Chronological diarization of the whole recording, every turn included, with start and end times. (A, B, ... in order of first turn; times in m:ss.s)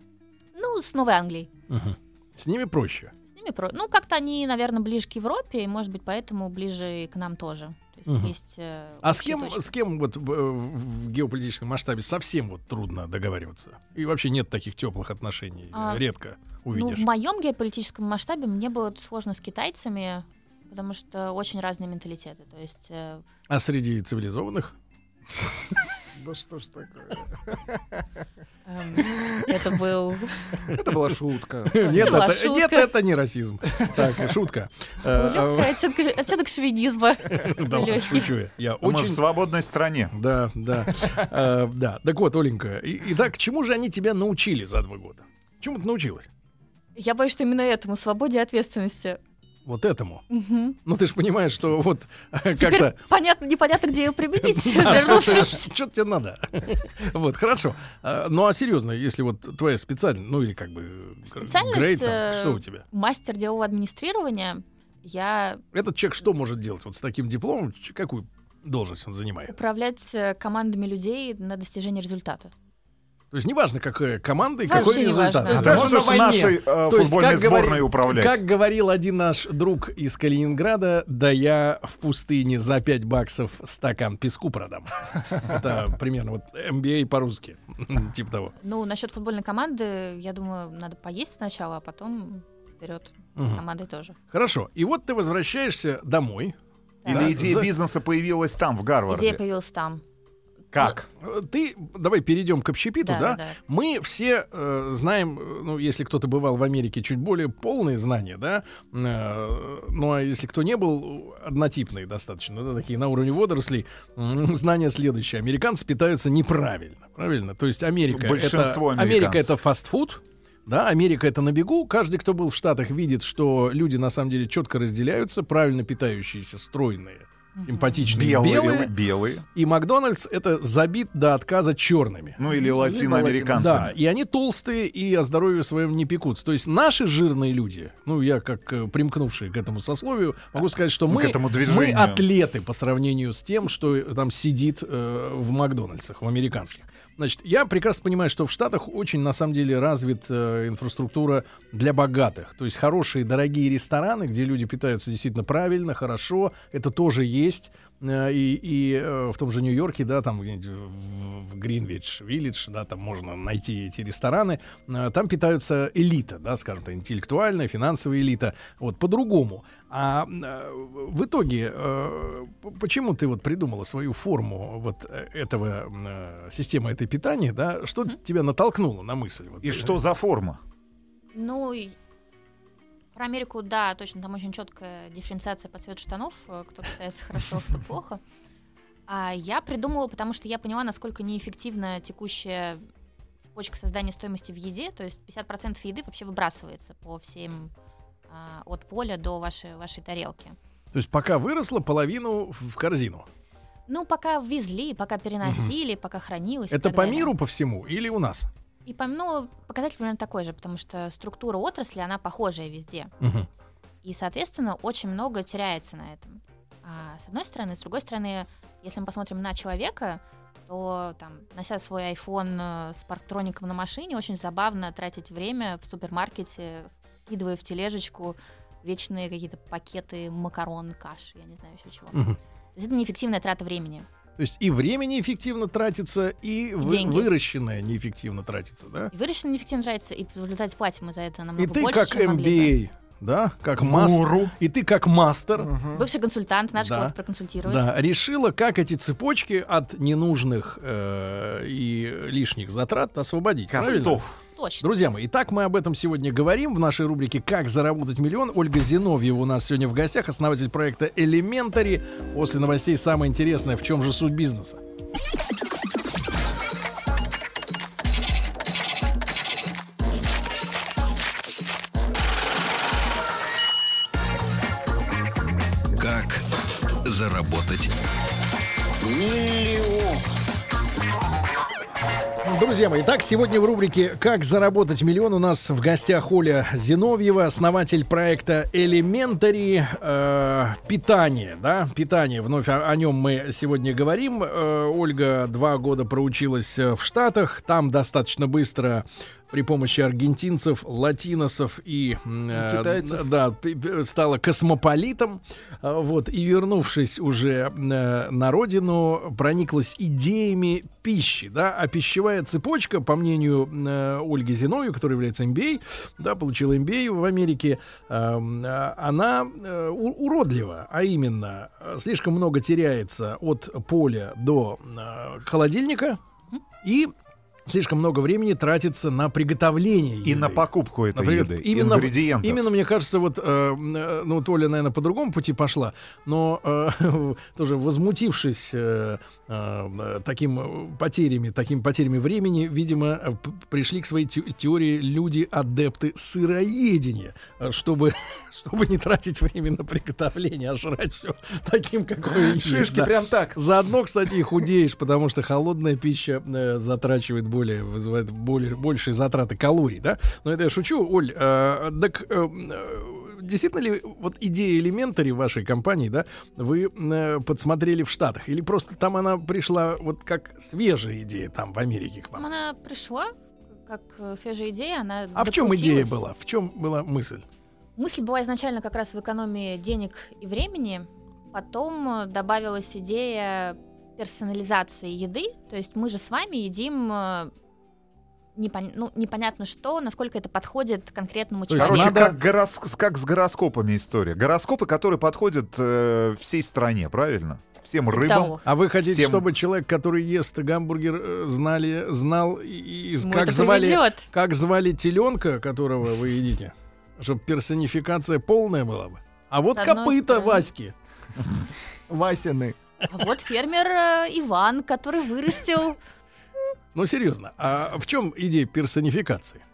0:00.5-0:01.5 A
0:01.7-0:03.1 B
0:03.3-0:09.7 A
0:08.1-0:08.3 B
0:09.0-0:17.0 B
0:15.7-0:16.0 A
0:16.7-0:23.2 A
0:23.5-0:24.7 B
0:26.1-0:28.0 C
0:28.7-0:30.6 A
0:29.0-0:29.5 C
0:30.6-0:32.2 C
0:30.7-0:31.0 B
0:31.7-0:35.8 B
0:31.8-0:32.9 A
0:35.1-0:38.3 A
0:37.3-0:39.2 B
0:38.8-0:40.1 D
0:40.1-0:46.3 B
0:47.0-0:49.2 A
0:49.6-0:50.2 B
0:50.3-0:50.8 A
0:50.8-0:53.0 B
0:52.6-0:55.7 A
0:54.4-1:02.8 B
1:01.3-1:05.6 A
1:05.7-1:09.5 B
1:09.5-1:12.5 A
1:13.3-1:16.1 B
1:14.6-1:15.9 A
1:15.5-1:16.6 C
1:15.5-1:18.4 D
1:16.8-1:28.5 B
1:28.6-1:34.2 A
1:33.4-1:33.6 B
1:34.3-1:37.7 B
1:37.0-1:37.3 A
1:37.1-1:39.4 D
1:39.1-1:40.0 A
1:40.7-1:41.1 D
1:41.2-2:08.9 B
1:43.0-1:43.6 A
1:58.1-1:59.5 D
2:07.6-2:08.1 A
2:08.1-2:09.4 D
2:09.6-3:00.0 B
2:12.4-2:14.0 D
2:12.5-2:12.8 A
2:21.1-2:22.2 D
2:59.6-3:00.6 D
3:01.3-3:02.0 A
3:03.2-3:08.2 A
3:09.1-3:12.8 A
3:13.5-3:17.7 A
3:18.3-3:20.6 A
3:20.9-3:23.3 B
3:23.9-3:27.3 A
3:25.4-3:25.7 B
3:26.7-3:28.5 B
3:28.9-3:33.1 A
3:33.2-3:33.5 B
3:34.0-3:54.1 A
3:52.1-3:52.4 B
3:54.4-3:59.1 B
3:56.8-3:57.3 A
3:59.1-4:02.8 A
4:01.6-4:05.7 B
4:03.8-4:04.5 D
4:05.6-4:06.0 C
4:05.9-4:07.9 A
4:06.8-4:14.2 B
4:13.7-4:14.4 D
4:13.8-4:14.9 A
4:14.8-4:24.8 B
4:36.0-4:36.4 E
4:37.0-4:37.9 E
4:39.0-4:40.2 E
4:42.4-5:26.2 B
5:02.5-5:03.2 C
5:26.8-5:27.1 B
5:27.7-6:12.4 B
5:30.2-5:32.6 D
5:52.4-5:53.6 C
6:12.4-6:13.3 A
6:13.8-6:16.2 A
6:15.4-6:17.4 B
6:18.0-6:27.5 A
6:28.6-6:32.2 A
6:31.7-6:32.4 B
6:31.8-6:39.5 D
6:38.1-6:38.6 A
6:38.6-6:50.9 B
6:43.2-6:44.3 A
6:49.8-6:50.6 A
6:52.1-6:52.8 C
6:53.1-6:56.0 A
6:57.0-6:59.6 B